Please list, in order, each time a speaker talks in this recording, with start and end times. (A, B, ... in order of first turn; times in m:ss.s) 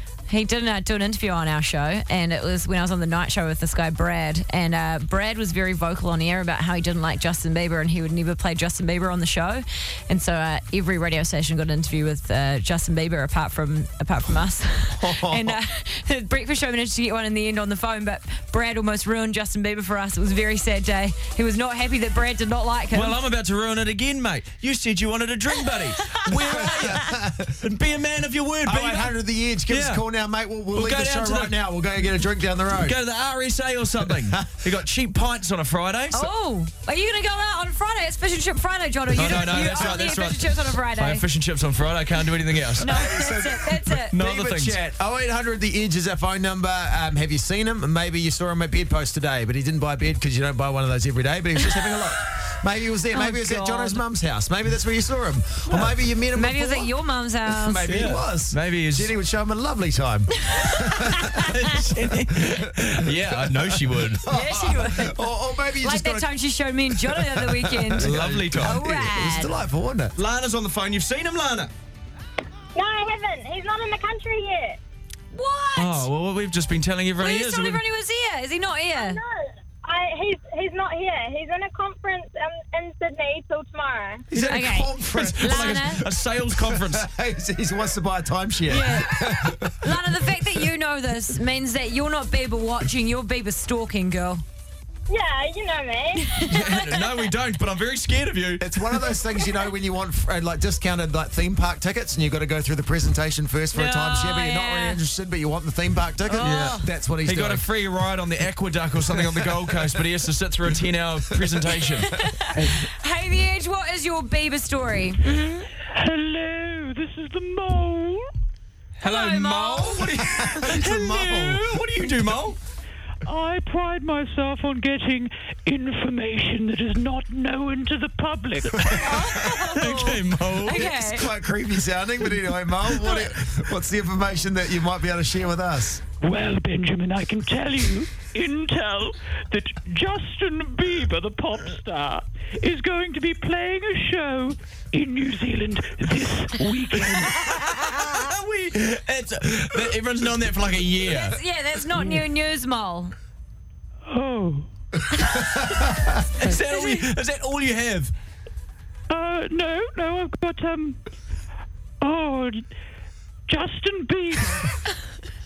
0:00.3-0:23.2 A
0:14.9-0:15.6 B
0:22.9-0:29.2 C
0:26.4-0:27.6 B
0:28.6-0:33.0 B
0:29.7-0:30.0 C
0:30.7-0:31.5 C
0:32.8-0:36.3 C
0:34.1-0:34.5 B
0:36.1-0:41.2 A
0:39.1-0:42.9 C
0:39.6-0:39.9 B
0:42.8-0:44.2 A
0:42.8-0:56.9 B
0:44.1-0:44.8 C
0:53.1-0:54.0 A
0:56.3-0:58.0 A
0:57.4-1:01.5 B
0:57.9-0:59.1 C
1:00.4-1:01.5 A
1:01.4-1:04.2 C
1:02.3-1:06.3 B
1:04.3-1:05.2 A
1:05.8-1:09.5 A
1:06.9-1:10.1 B
1:08.0-1:08.8 C
1:10.2-1:11.7 C
1:12.7-1:14.8 D
1:15.3-1:16.1 A
1:15.8-1:17.8 C
1:17.2-1:19.2 A
1:18.9-1:24.2 D
1:24.3-1:30.4 B
1:24.3-1:27.1 C
1:24.4-1:26.0 A
1:28.7-1:34.4 A
1:35.1-1:36.4 D
1:36.2-1:37.0 A
1:36.4-1:38.7 C
1:38.6-1:47.6 B
1:43.7-1:45.0 A
1:46.2-1:46.8 A
1:46.4-1:52.6 C
1:49.1-1:50.0 B
1:51.3-1:51.6 B
1:52.0-1:55.5 A
1:55.9-1:58.3 E
1:59.0-2:02.6 C
1:59.0-2:00.2 A
2:00.2-2:01.7 B
2:03.2-2:09.0 E
2:08.8-2:09.6 B
2:08.8-2:11.3 A
2:09.5-2:10.9 C
2:10.7-2:16.0 B
2:16.2-2:27.5 E
2:27.5-2:31.4 C
2:27.8-2:28.1 A
2:31.0-2:33.1 A
2:34.1-2:34.7 E
2:35.5-2:36.1 B
2:36.4-2:38.1 C
2:39.1-2:41.0 E
2:42.0-2:42.7 E
2:43.5-2:44.7 E